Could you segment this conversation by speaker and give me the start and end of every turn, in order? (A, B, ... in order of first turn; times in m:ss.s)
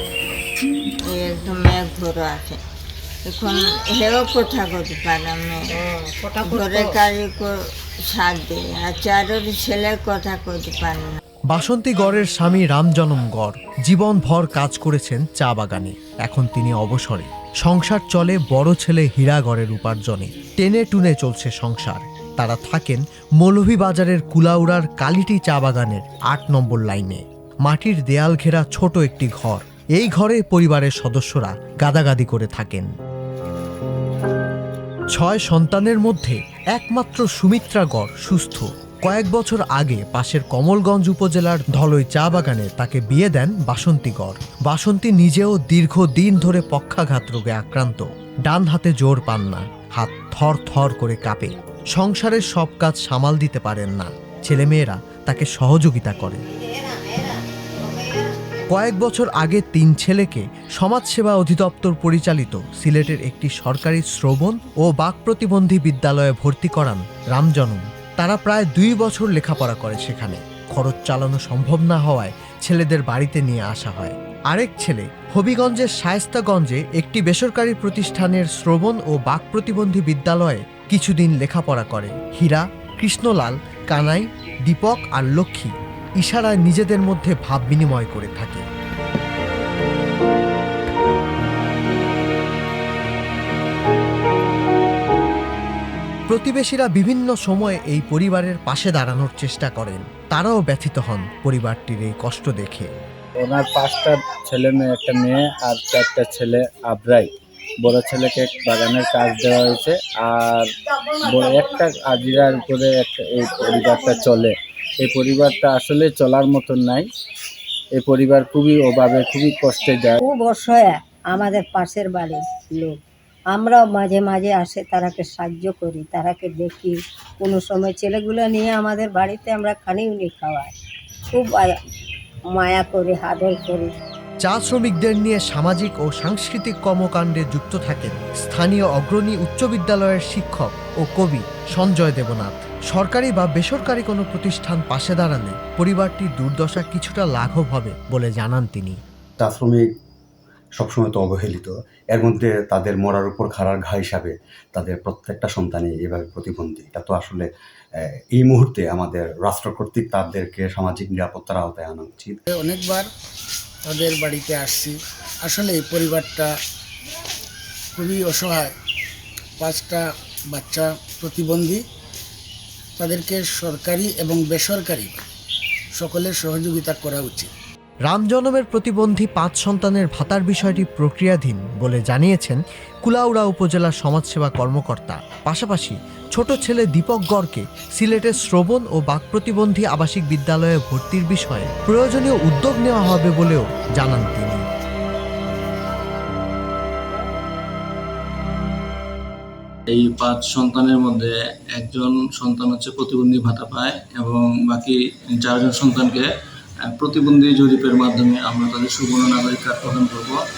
0:01.0-0:02.6 A
0:03.2-0:05.8 A
0:06.3-0:11.2 A
0:11.5-0:32.9 B
0:35.1-0:56.4 B
0:58.7-1:28.6 B
1:36.3-1:42.9 B
1:43.4-1:57.1 C
1:57.9-2:00.2 C
2:00.2-2:03.0 D
2:03.5-2:10.7 D
2:11.3-2:11.7 D
2:12.5-2:13.9 D
2:14.4-2:29.0 B
2:29.4-2:29.8 E
2:30.8-2:37.5 E
2:38.0-2:42.4 E
2:42.5-2:43.1 F
2:43.8-2:46.5 F
2:48.0-2:48.7 F
2:49.6-2:51.8 F
2:53.0-2:55.2 F
2:56.0-2:57.5 F
2:58.1-3:14.6 B
3:19.9-3:26.3 G
3:27.0-3:30.4 G